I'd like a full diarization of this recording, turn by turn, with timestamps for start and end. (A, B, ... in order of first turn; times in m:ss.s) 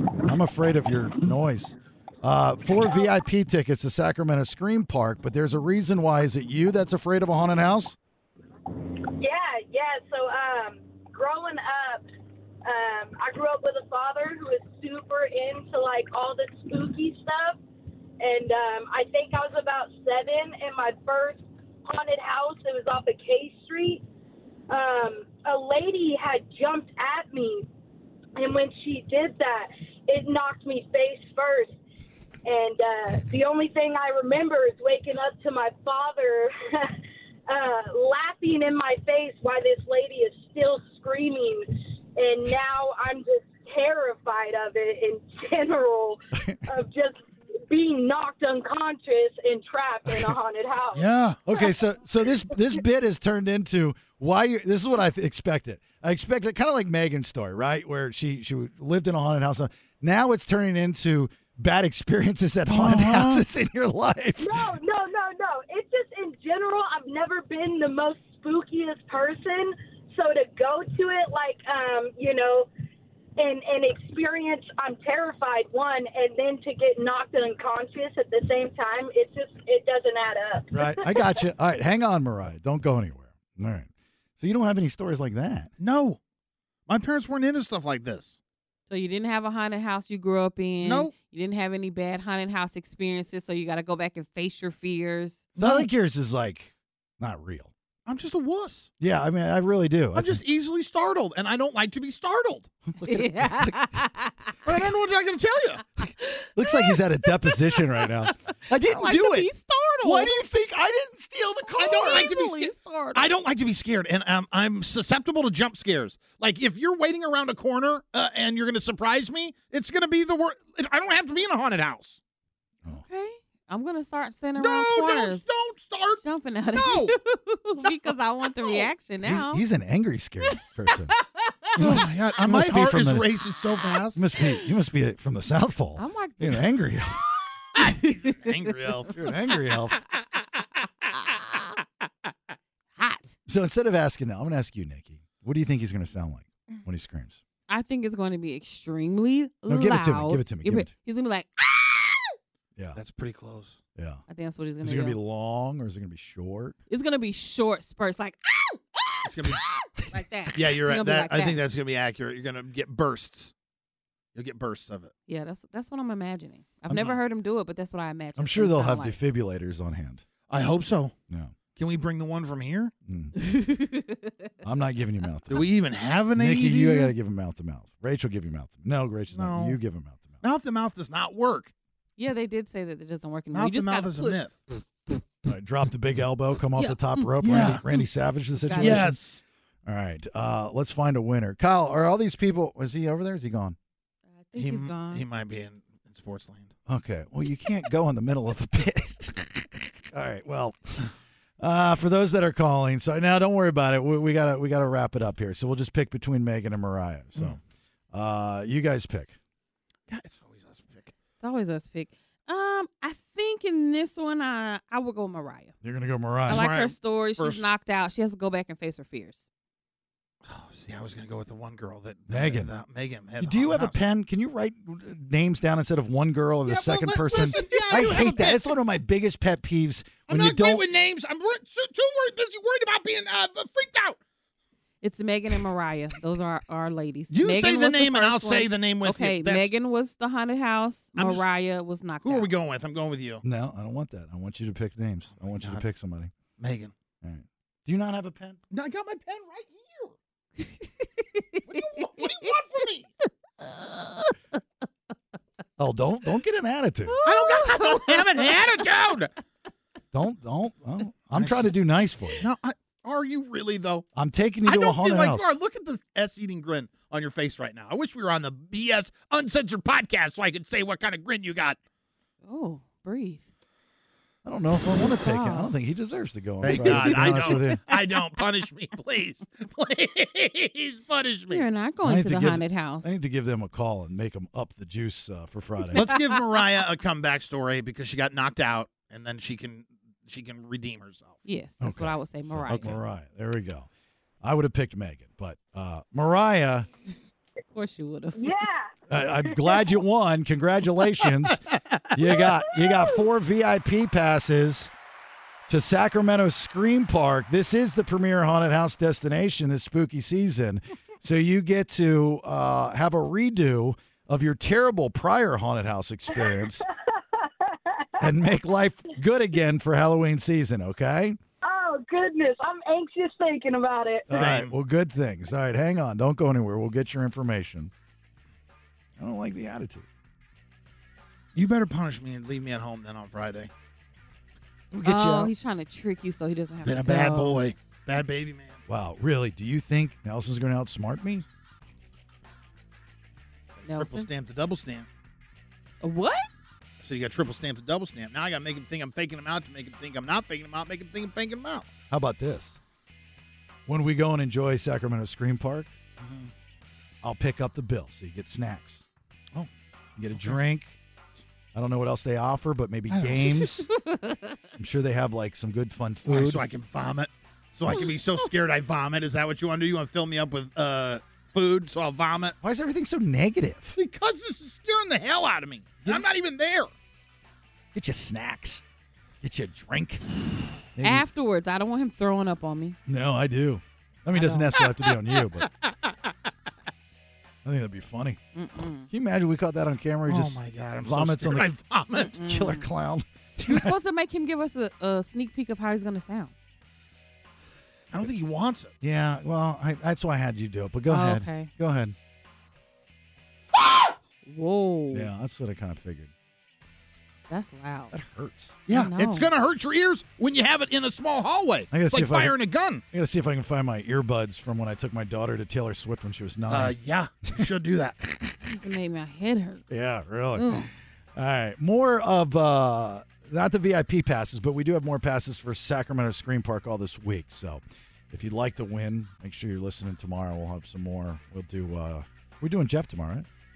0:00.2-0:08.0 A
0:09.2-0:12.0 B
0:12.6-0:17.6 B
0:18.2-0:24.0 B
0:24.7-0:27.7 B
0:28.4-0:31.8 B
0:32.4-0:37.0 B
0:37.5-0:51.0 B
0:50.9-0:51.4 C
0:51.4-1:04.7 A
1:02.7-1:03.4 C
1:04.4-1:12.7 B
1:13.4-1:21.3 B
1:20.7-1:25.7 A
1:25.8-1:26.2 C
1:26.9-1:28.4 C
1:28.9-1:35.5 D
1:30.8-1:31.1 C
1:35.6-1:35.9 C
1:35.6-1:37.7 A
1:38.0-1:38.9 C
1:39.0-1:40.4 A
1:40.1-1:42.7 C
1:42.9-1:43.9 A
1:43.0-1:44.5 D
1:44.6-1:45.8 C
1:46.2-1:48.0 D
1:46.6-1:49.5 A
1:48.8-1:50.3 D
1:50.0-1:52.4 A
1:51.7-1:53.3 D
1:51.8-2:02.2 C
2:03.0-2:05.4 D
2:04.6-2:06.2 C
2:06.2-2:09.6 D
2:06.7-2:07.1 C
2:09.2-2:11.1 A
2:11.8-2:13.3 A
2:11.8-2:14.2 C
2:14.1-2:17.2 A
2:16.0-2:16.6 D
2:17.8-2:18.9 D
2:17.8-2:19.3 C
2:19.1-2:20.0 A
2:23.0-2:23.3 D
2:23.5-2:27.4 A
2:27.7-2:32.3 D
2:29.7-2:30.9 A
2:32.9-2:33.8 C
2:34.0-2:34.2 A
2:34.3-2:35.2 D
2:34.8-2:36.8 A
2:36.9-2:39.3 D
2:39.2-2:39.6 C
2:40.1-2:41.6 D
2:40.5-2:43.5 C
2:44.4-2:45.1 C
2:45.3-2:49.2 D
2:46.9-2:47.1 A
2:48.4-2:50.2 A
2:50.5-2:51.1 C
2:51.8-2:52.9 C
2:53.1-2:53.3 A
2:53.4-2:54.3 D
2:54.6-2:55.6 A
2:55.5-2:57.1 C
2:56.4-3:00.4 A
2:59.3-2:59.8 C
3:00.4-3:01.7 C
3:02.2-3:04.4 D
3:03.5-3:04.5 C
3:05.4-3:09.1 A
3:06.8-3:07.2 D
3:07.4-3:07.8 C
3:08.6-3:09.1 D
3:08.8-3:09.4 C
3:09.8-3:13.8 A
3:14.4-3:15.2 D
3:14.6-3:16.7 C
3:16.9-3:21.1 A
3:21.6-3:27.6 A
3:28.1-3:29.4 A
3:30.1-3:31.1 C
3:31.4-3:35.7 D
3:35.8-3:36.6 A
3:36.5-3:39.5 D
3:36.5-3:37.6 C
3:40.4-3:44.0 C
3:42.3-3:42.7 A
3:43.4-3:50.8 A
3:46.7-3:48.7 C
3:50.3-3:54.2 C
3:55.0-4:02.5 D
3:57.3-3:59.7 C
4:01.2-4:01.5 C
4:02.2-4:03.4 C
4:03.4-4:06.3 A
4:05.4-4:05.8 C
4:06.6-4:06.9 C
4:07.2-4:08.6 A
4:08.7-4:10.1 C
4:10.6-4:11.6 D
4:11.7-4:13.1 C
4:15.8-4:17.2 A
4:17.1-4:18.4 D
4:17.2-4:19.3 C
4:20.1-4:22.4 A
4:21.3-4:21.7 C
4:22.4-4:24.0 C
4:24.1-4:25.5 A
4:24.6-4:31.8 C
4:32.4-4:33.4 D
4:34.4-4:37.8 A
4:35.0-4:35.7 D
4:36.6-4:41.6 C
4:36.7-4:37.9 D
4:41.5-4:43.1 D
4:42.0-4:46.0 A
4:45.9-4:51.4 C
4:51.4-4:52.9 D
4:51.8-4:53.9 A
4:54.4-4:56.9 A
4:57.7-4:58.5 D
4:58.4-4:58.9 B
4:59.1-5:04.9 A
4:59.5-4:59.9 B
5:05.7-5:16.8 A
5:16.3-5:18.3 B
5:18.2-5:21.4 A
5:21.6-5:24.3 B
5:24.3-5:27.9 A
5:24.3-5:24.7 C
5:29.2-5:30.0 A
5:31.5-5:33.7 C
5:34.9-5:35.5 A
5:35.0-5:37.6 D
5:36.8-5:38.8 C
5:38.9-5:41.4 A
5:43.8-5:45.1 C
5:43.8-5:44.3 D
5:46.0-5:46.4 D
5:47.0-5:51.9 C
5:52.1-5:52.8 A
5:53.9-5:55.9 A
5:56.2-5:56.5 C
5:57.2-5:59.0 A
6:00.2-6:01.0 A
6:01.7-6:03.9 A
6:03.1-6:03.8 C
6:04.0-6:04.4 D
6:04.8-6:06.6 A
6:06.2-6:12.6 C
6:12.6-6:13.9 A
6:14.0-6:16.9 C
6:17.9-6:18.8 A
6:19.4-6:20.2 A
6:21.0-6:21.2 A
6:21.0-6:23.0 D
6:23.1-6:25.7 A
6:24.3-6:24.7 D
6:27.6-6:28.4 A
6:28.5-6:29.1 D
6:29.1-6:31.7 A
6:30.3-6:32.3 C
6:32.2-6:32.9 D
6:32.4-6:33.9 A
6:33.7-6:36.5 D
6:38.1-6:38.9 C
6:39.0-6:42.1 A
6:41.1-6:41.7 D
6:44.4-6:45.3 D
6:45.1-6:46.3 A
6:47.5-6:48.1 D
6:48.1-6:48.8 A
6:48.9-6:53.0 C
6:48.9-6:49.5 D
6:51.9-6:52.5 A
6:53.1-6:56.9 A
6:56.7-6:58.2 C
6:58.7-6:59.8 D
6:59.9-7:13.4 A
7:00.6-7:00.9 D